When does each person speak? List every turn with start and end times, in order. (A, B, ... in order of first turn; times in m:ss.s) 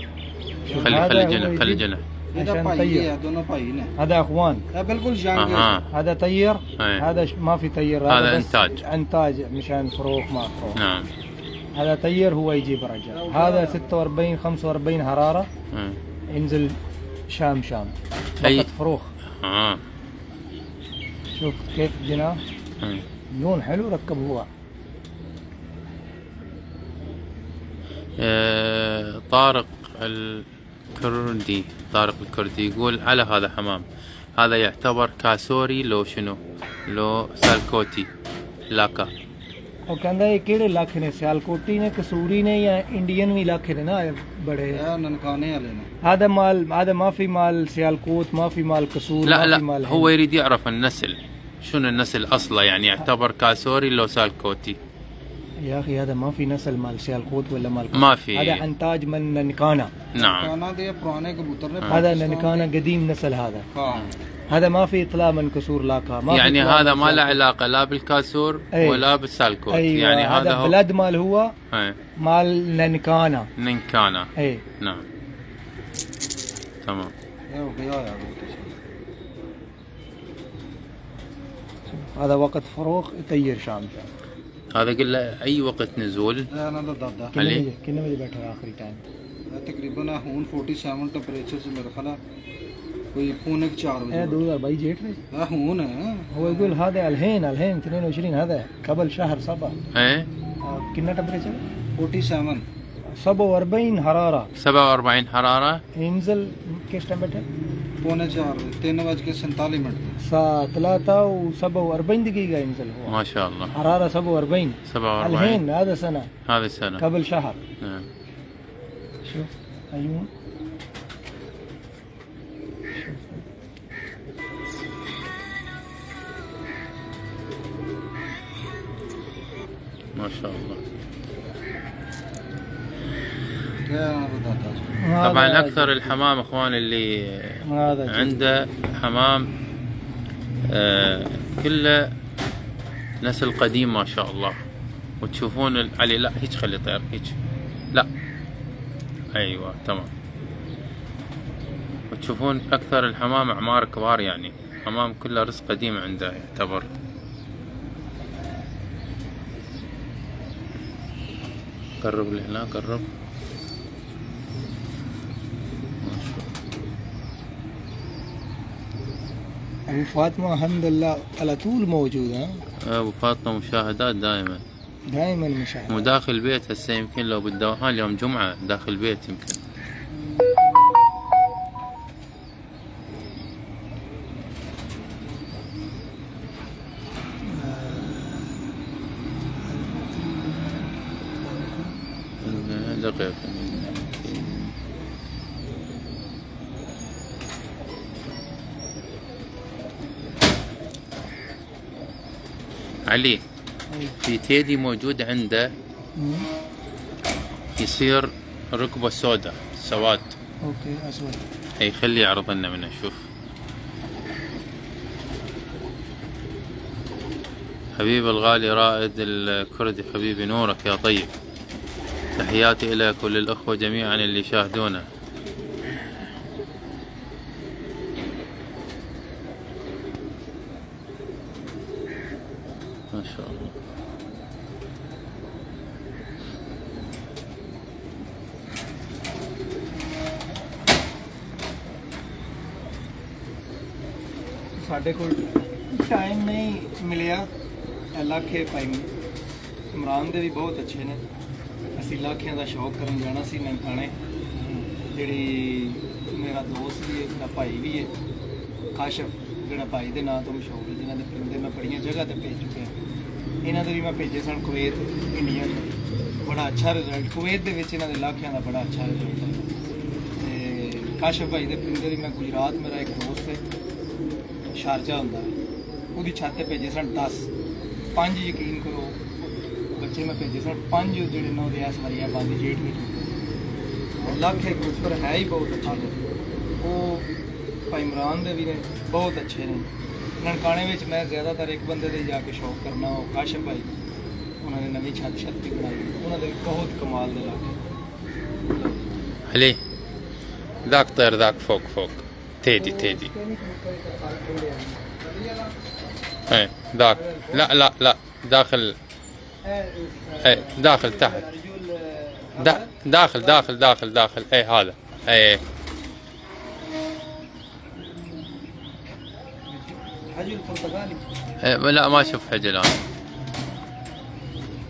0:00.7-0:01.1 A
0:00.7-0:01.8 B
0:00.8-0:02.0 C
0:02.3-0:03.9 A
0:02.4-0:03.1 B
0:04.0-0:04.6 B
0:04.7-0:05.8 A
0:05.4-0:05.9 C
0:05.9-0:10.8 B
0:06.8-0:07.0 C
0:08.1-0:08.8 C
0:10.8-0:11.1 C
0:11.8-0:15.5 B
0:13.1-0:13.8 A
0:15.7-0:16.0 C
0:16.3-0:16.8 B
0:17.3-0:19.1 B
0:18.4-0:18.7 C
0:19.4-0:19.8 C
0:21.4-0:22.4 B
0:23.3-0:24.5 B
0:28.2-0:30.4 C
0:31.0-0:33.8 C
0:34.4-0:38.1 C
0:38.7-0:39.1 C
0:39.9-0:44.8 B
0:44.7-0:45.9 A
0:46.0-0:50.1 B
0:49.2-0:54.8 C
0:55.6-1:00.0 B
0:57.9-0:58.6 C
1:00.1-1:00.5 C
1:00.2-1:02.7 A
1:01.9-1:03.7 B
1:03.7-1:04.2 A
1:04.5-1:07.4 B
1:06.3-1:10.8 C
1:08.7-1:09.0 B
1:09.7-1:11.6 B
1:11.7-1:12.0 C
1:12.2-1:13.5 B
1:13.6-1:15.0 C
1:14.4-1:14.6 B
1:16.8-1:17.1 C
1:17.5-1:18.7 A
1:21.9-1:24.1 B
1:24.7-1:26.5 C
1:26.5-1:27.3 A
1:27.3-1:29.0 B
1:27.4-1:27.7 C
1:29.5-1:32.2 A
1:33.1-1:34.4 A
1:34.1-1:35.2 B
1:35.3-1:36.8 A
1:36.3-1:39.8 B
1:39.9-1:40.3 C
1:40.6-1:41.6 B
1:42.0-1:42.6 A
1:43.2-1:44.5 B
1:44.6-1:45.8 C
1:46.0-1:47.5 B
1:48.0-1:50.2 A
1:50.2-1:53.2 B
1:53.1-1:53.7 C
1:53.7-1:56.3 B
1:54.9-1:55.6 C
1:56.5-1:57.0 C
1:57.0-1:57.6 B
1:57.8-1:58.1 C
1:59.2-2:00.3 B
2:02.9-2:03.4 B
2:10.2-2:10.8 C
2:13.8-2:15.0 A
2:15.0-2:16.1 B
2:15.2-2:19.5 C
2:17.6-2:18.4 B
2:20.7-2:22.1 C
2:23.2-2:24.6 C
2:25.2-2:27.4 C
2:29.4-2:30.1 C
2:32.1-2:36.9 C
2:42.0-2:43.1 C
2:46.0-2:46.5 C
2:49.9-2:52.6 B
2:52.8-2:54.6 C
2:55.1-2:56.1 B
2:55.9-2:59.6 C
3:07.4-3:08.6 B
3:09.7-3:10.8 B
3:11.4-3:12.0 B
3:12.4-3:14.6 C
3:23.1-3:23.4 C
3:23.9-3:24.2 B
3:24.2-3:25.7 C
3:26.2-3:26.5 B
3:27.8-3:30.3 C
3:30.6-3:31.4 B
3:31.8-3:33.2 C
3:38.0-3:41.3 C
3:42.4-3:45.1 C
3:53.1-3:53.7 C
4:04.8-4:07.5 B
4:08.2-4:09.1 B
4:09.9-4:11.2 B
4:12.0-4:18.1 B
4:19.0-4:22.9 B
4:23.6-4:29.7 B
4:30.4-4:33.6 B
4:34.7-4:35.5 B
4:36.2-4:37.5 B
4:38.2-4:39.3 B
4:40.0-4:43.4 B
4:44.2-4:46.2 B
4:45.8-4:46.3 A
4:46.8-4:47.3 B
4:47.9-4:49.9 B
4:50.4-4:53.9 B
4:54.6-4:57.8 B
4:59.5-4:59.8 C
5:00.8-5:03.3 C
5:02.8-5:05.1 B
5:05.2-5:05.8 A
5:06.5-5:09.0 C
5:07.1-5:07.8 B
5:09.6-5:13.6 B
5:10.4-5:11.4 C
5:12.6-5:15.6 C
5:19.7-5:21.2 B
5:21.6-5:23.0 C